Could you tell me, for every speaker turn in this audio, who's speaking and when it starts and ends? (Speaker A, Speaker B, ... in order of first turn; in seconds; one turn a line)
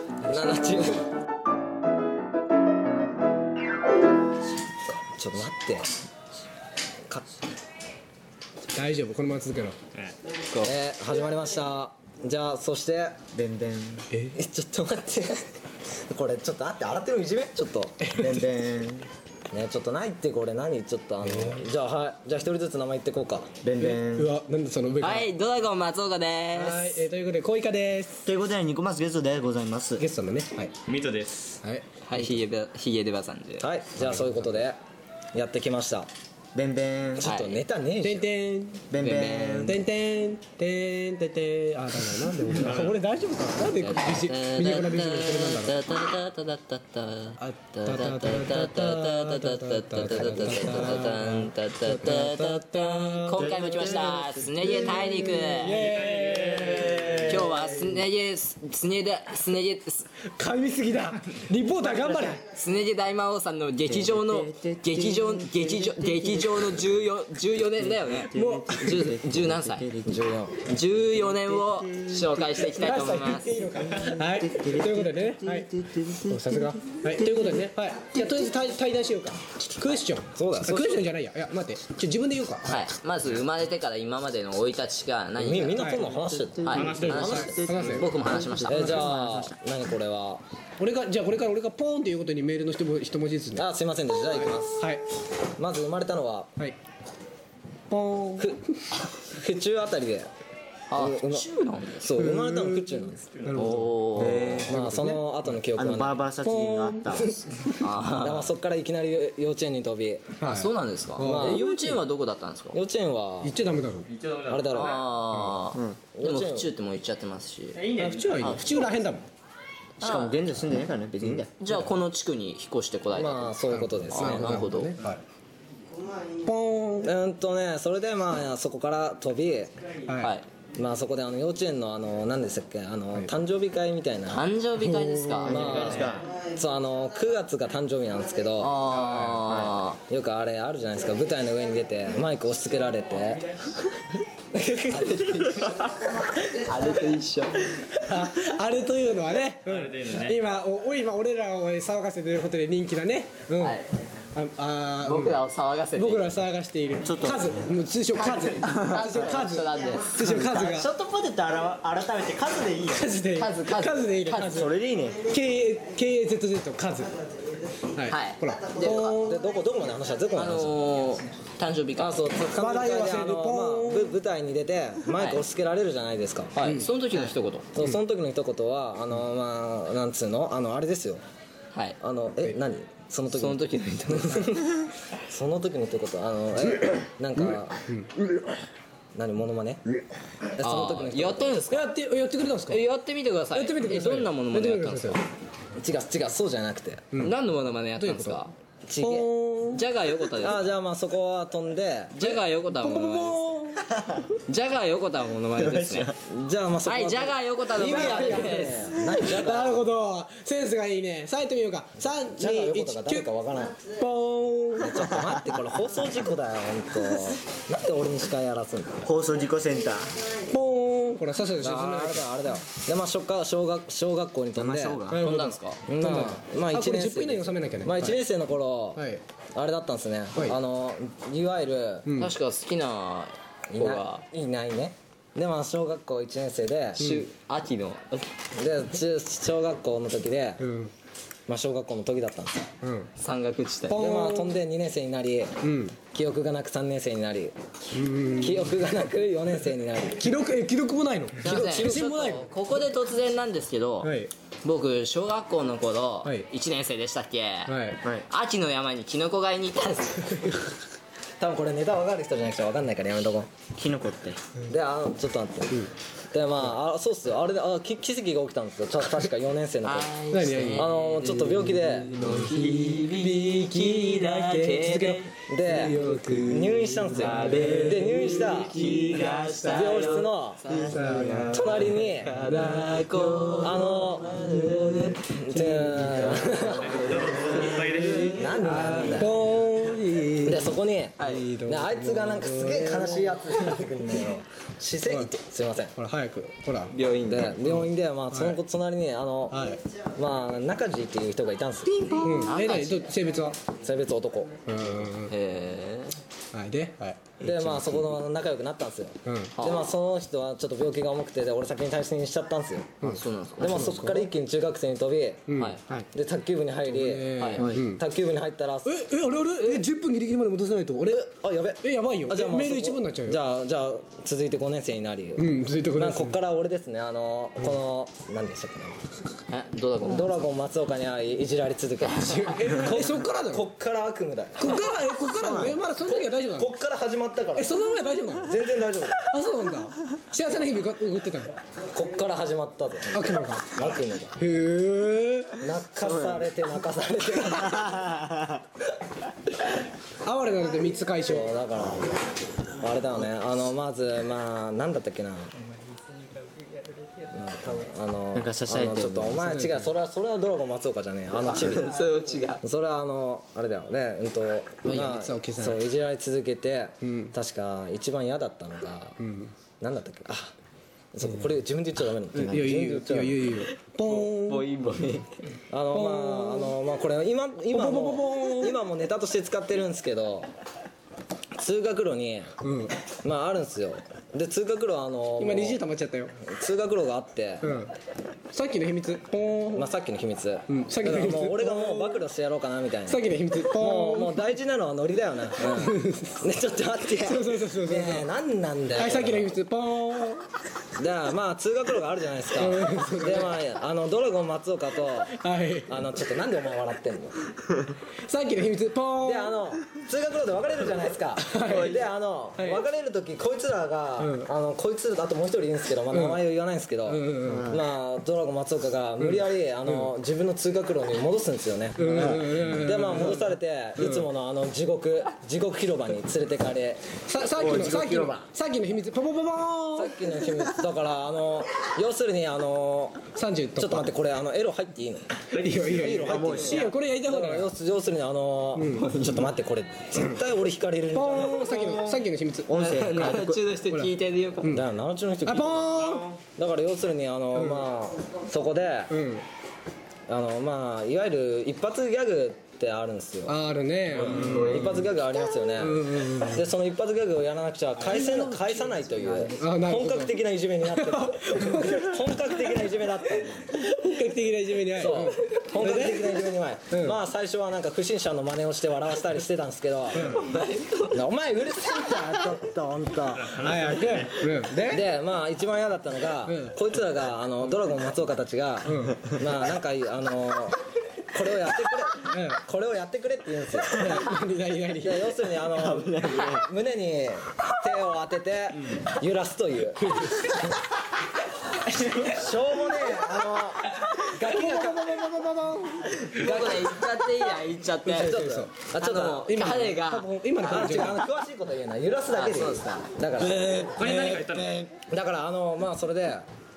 Speaker A: 0.2-1.1
Speaker A: 4.9-5.9
Speaker B: 8.7-9.8
Speaker A: 10.6-13.2
Speaker C: 13.3-14.1
Speaker B: 14.1-14.4
Speaker A: 14.3-15.5
Speaker A: 16.1-18.0
Speaker B: 18.1-18.3
Speaker C: 18.2-19.1
Speaker A: 19.5-23.5
Speaker B: 21.2-21.6
Speaker C: 23.6-24.3
Speaker B: 23.8-25.3
Speaker D: 25.0-27.1
Speaker B: 26.5-28.3
Speaker C: 28.2-30.0
Speaker B: 30.0-30.7
Speaker E: 30.9-31.5
Speaker B: 31.6-32.4
Speaker D: 32.1-33.7
Speaker A: 33.6-34.8
Speaker B: 34.2-34.5
Speaker A: 35.3-36.1
Speaker C: 36.5-37.3
Speaker A: 37.1-38.2
Speaker D: 37.2-37.6
Speaker B: 38.0-38.9
Speaker C: 38.9-39.8
Speaker D: 39.0-39.7
Speaker B: 39.6-45.9
Speaker E: 42.5-42.9
Speaker D: 43.7-55.8
Speaker B: 47.4-57.5
Speaker A: 50.0-51.1
Speaker C: 53.4-54.1
Speaker C: 54.6-55.2
Speaker E: 55.8-57.3
Speaker D: 57.2-60.0
Speaker B: 60.3-62.4
Speaker C: 61.8-62.4
Speaker D: 62.4-69.9
Speaker C: 63.9-67.0
Speaker C: 67.9-70.2
Speaker B: 68.4-68.7
Speaker A: 70.0-70.7
Speaker D: 70.6-73.5
Speaker C: 71.2-72.9
Speaker B: 72.8-75.7
Speaker C: 73.6-77.7
Speaker B: 76.2-82.9
Speaker A: 80.3-81.1
Speaker D: 82.6-85.9
Speaker A: 85.4-87.5
Speaker B: 85.7-86.1
Speaker C: 86.0-89.5
Speaker D: 86.6-89.2
Speaker E: 86.7-87.3
Speaker B: 87.0-88.1
Speaker A: 88.6-90.4
Speaker B: 88.7-89.1
Speaker B: 90.8-93.7
Speaker A: 93.5-94.9
Speaker B: 94.3-95.0
Speaker A: 95.6-96.5
Speaker B: 97.9-98.5
Speaker A: 98.4-98.6
Speaker A: 99.1-100.3
Speaker D: 100.9-102.1
Speaker A: 101.0-101.5
Speaker A: 102.0-103.4
Speaker B: 102.2-105.2
Speaker D: 103.6-104.6
Speaker C: 104.1-104.8
Speaker A: 104.6-110.4
Speaker C: 105.7-107.4
Speaker D: 107.8-108.5
Speaker B: 110.4-112.0
Speaker D: 110.5-112.8
Speaker A: 111.2-111.7
Speaker A: 112.7-113.5
Speaker B: 113.4-114.1
Speaker E: 114.1-115.0
Speaker A: 114.5-115.1
Speaker D: 114.7-117.9
Speaker B: 115.3-115.6
Speaker C: 115.7-116.0
Speaker A: 116.1-116.7
Speaker E: 117.8-118.8
Speaker B: 117.9-119.3
Speaker D: 120.0-120.4
Speaker C: 120.0-121.5
Speaker D: 121.6-123.6
Speaker A: 123.1-124.7
Speaker B: 123.7-125.2
Speaker D: 124.1-125.0
Speaker B: 126.4-127.1
Speaker A: 127.0-129.8
Speaker B: 130.1-130.3
Speaker D: 130.2-130.5
Speaker A: 130.8-134.5
Speaker D: 134.3-136.3
Speaker B: 134.8-136.0
Speaker C: 135.5-136.3
Speaker A: 135.5-138.8
Speaker D: 138.6-140.0
Speaker B: 139.0-139.4
Speaker A: 139.5-143.5
Speaker A: 144.5-145.6
Speaker D: 144.9-147.9
Speaker B: 148.0-153.8
Speaker E: 149.7-150.4
Speaker D: 153.6-153.9
Speaker B: 154.3-155.4
Speaker D: 155.0-156.3
Speaker B: 155.9-160.9
Speaker C: 157.0-157.7
Speaker D: 158.3-160.2
Speaker C: 158.6-159.2
Speaker C: 160.2-163.1
Speaker B: 162.9-167.1
Speaker D: 163.4-164.6
Speaker C: 164.4-165.2
Speaker B: 167.9-169.5
Speaker D: 168.1-169.2
Speaker A: 168.8-170.8
Speaker D: 170.3-172.3
Speaker A: 172.0-176.9
Speaker B: 172.6-174.2
Speaker D: 175.1-175.4
Speaker B: 176.6-176.9
Speaker D: 176.7-177.7
Speaker A: 177.8-181.2
Speaker A: 182.0-187.8
Speaker D: 183.3-184.7
Speaker B: 187.3-188.4
Speaker A: 189.2-189.8
Speaker A: 190.6-191.6
Speaker D: 190.6-191.9
Speaker B: 191.7-192.8
Speaker D: 192.7-195.2
Speaker B: 193.5-195.2
Speaker A: 195.8-197.1
Speaker D: 197.2-198.5
Speaker B: 197.9-198.5
Speaker A: 198.9-199.3
Speaker B: 199.0-199.8
Speaker D: 199.7-200.6
Speaker A: 200.4-202.4
Speaker D: 202.2-203.4
Speaker B: 202.7-203.9
Speaker D: 204.5-206.1
Speaker C: 205.6-206.1
Speaker A: 206.3-209.9
Speaker D: 206.9-208.8
Speaker B: 207.8-215.1
Speaker A: 212.2-213.8
Speaker A: 214.8-219.1
Speaker C: 219.0-220.2
Speaker B: 220.5-222.7
Speaker A: 221.6-225.1
Speaker C: 224.6-225.4
Speaker D: 225.1-225.8
Speaker A: 225.9-232.2
Speaker B: 226.0-228.2
Speaker B: 228.9-229.2
Speaker B: 232.1-232.3
Speaker D: 232.2-234.2
Speaker A: 233.7-237.3
Speaker B: 237.0-237.3
Speaker D: 237.2-238.3
Speaker A: 238.6-240.7
Speaker B: 240.6-240.9
Speaker A: 241.5-242.7
Speaker B: 242.8-243.1
Speaker D: 243.2-244.0
Speaker B: 243.9-244.6
Speaker A: 243.9-247.6
Speaker B: 245.6-246.0
Speaker B: 247.9-248.8
Speaker A: 248.3-250.3
Speaker B: 250.1-252.5
Speaker A: 251.4-252.1
Speaker D: 251.4-260.6
Speaker B: 254.0-254.3
Speaker B: 256.2-256.5
Speaker B: 257.7-258.0
Speaker A: 261.4-263.5
Speaker C: 263.8-264.4
Speaker A: 264.7-270.1
Speaker D: 269.8-289.3
Speaker B: 270.3-270.9
Speaker A: 270.7-272.3
Speaker C: 272.4-273.1
Speaker C: 274.0-274.6
Speaker B: 274.7-275.2
Speaker A: 275.5-278.9
Speaker B: 276.0-276.9
Speaker C: 277.5-279.9
Speaker A: 279.7-280.6
Speaker C: 280.7-281.8
Speaker B: 280.9-281.7
Speaker A: 281.5-282.3
Speaker A: 283.6-284.3
Speaker A: 285.3-287.1
Speaker B: 285.5-286.8
Speaker E: 287.0-288.2
Speaker A: 287.9-289.4
Speaker B: 288.6-293.4
Speaker A: 290.4-295.9
Speaker D: 291.2-291.4
Speaker B: 295.1-295.4
Speaker B: 295.9-296.9
Speaker D: 296.9-297.6
Speaker A: 297.3-301.9
Speaker B: 297.6-298.6
Speaker B: 299.5-299.8
Speaker D: 301.9-303.1
Speaker B: 302.2-303.6
Speaker A: 303.8-304.6
Speaker B: 304.6-305.4
Speaker D: 305.2-306.2
Speaker B: 306.5-308.1
Speaker A: 307.4-313.1
Speaker B: 309.2-309.6
Speaker D: 309.6-309.9
Speaker B: 313.0-314.3
Speaker D: 313.0-314.0
Speaker A: 313.6-315.5
Speaker B: 315.5-316.1
Speaker A: 316.1-319.1
Speaker B: 316.9-318.0
Speaker D: 317.4-317.7
Speaker B: 318.9-323.4
Speaker A: 321.1-329.1
Speaker B: 325.4-326.4
Speaker D: 329.5-330.4
Speaker A: 330.0-337.8
Speaker B: 332.1-333.7
Speaker B: 334.6-336.7
Speaker C: 335.4-335.7
Speaker B: 337.6-338.6
Speaker A: 338.4-339.2
Speaker B: 339.2-341.6
Speaker A: 341.9-344.3
Speaker B: 343.1-345.6
Speaker A: 345.6-348.2
Speaker C: 346.0-346.4
Speaker C: 347.8-348.5
Speaker B: 350.2-351.6
Speaker A: 351.2-355.5
Speaker A: 357.3-362.0
Speaker C: 358.3-359.4
Speaker B: 359.4-359.9
Speaker D: 361.4-362.6
Speaker A: 362.6-369.2
Speaker D: 364.9-365.2
Speaker B: 365.0-365.9
Speaker B: 367.0-367.3
Speaker B: 369.2-369.5
Speaker A: 369.8-370.5
Speaker A: 371.1-373.6
Speaker B: 371.2-371.5
Speaker B: 372.3-374.9
Speaker D: 374.1-375.2
Speaker A: 375.7-380.5
Speaker B: 375.9-376.8
Speaker B: 377.7-378.8
Speaker A: 381.6-382.5
Speaker B: 382.6-383.0
Speaker A: 383.2-385.8
Speaker B: 385.4-386.4
Speaker A: 386.4-387.8
Speaker B: 387.6-387.9
Speaker B: 388.5-389.9
Speaker A: 389.7-399.5
Speaker B: 390.7-392.2
Speaker B: 393.1-394.4
Speaker B: 395.6-396.5
Speaker B: 397.1-398.3
Speaker B: 398.9-400.5
Speaker A: 400.9-407.4
Speaker B: 402.6-403.6
Speaker B: 405.3-406.2
Speaker B: 408.2-409.6
Speaker A: 409.2-427.1
Speaker B: 411.4-412.0
Speaker B: 412.6-412.9
Speaker B: 414.2-414.5
Speaker B: 416.1-416.4
Speaker B: 417.1-417.7
Speaker C: 417.5-417.8
Speaker B: 419.2-420.1
Speaker B: 422.0-424.3
Speaker C: 422.1-422.4
Speaker B: 427.1-430.3
Speaker C: 427.6-428.4
Speaker A: 430.0-433.2
Speaker B: 433.3-434.1
Speaker A: 433.8-435.2
Speaker B: 435.5-437.8
Speaker A: 435.8-442.1
Speaker C: 436.2-436.8
Speaker B: 438.8-439.3
Speaker B: 441.1-442.8
Speaker C: 441.7-442.1
Speaker C: 442.7-443.6
Speaker D: 442.7-444.8
Speaker B: 443.9-444.9
Speaker A: 444.7-446.0
Speaker B: 445.4-446.3
Speaker A: 446.6-449.2
Speaker B: 447.5-447.9
Speaker B: 449.1-449.4
Speaker A: 450.3-453.6
Speaker B: 453.4-454.8
Speaker D: 454.1-455.1
Speaker A: 454.4-463.8
Speaker B: 455.8-456.7
Speaker B: 458.0-462.8
Speaker B: 463.6-467.2
Speaker A: 464.9-470.4
Speaker B: 470.1-470.4
Speaker D: 470.2-471.2
Speaker A: 471.1-473.5
Speaker D: 472.1-472.4
Speaker E: 473.4-474.2
Speaker B: 473.5-475.1
Speaker A: 474.9-480.8
Speaker B: 476.4-476.8
Speaker B: 478.9-479.3
Speaker A: 481.3-484.2
Speaker B: 482.2-482.6
Speaker B: 483.9-485.6
Speaker A: 485.0-490.3
Speaker C: 485.8-486.7
Speaker B: 490.0-490.8
Speaker A: 492.2-495.2
Speaker B: 494.2-496.7
Speaker D: 496.2-498.4
Speaker A: 496.4-497.1
Speaker A: 498.1-499.5
Speaker B: 498.1-498.9
Speaker D: 499.0-501.2
Speaker B: 499.4-501.2
Speaker A: 500.6-503.9
Speaker D: 502.3-504.1
Speaker B: 503.8-504.7
Speaker E: 504.0-504.7
Speaker A: 505.1-506.4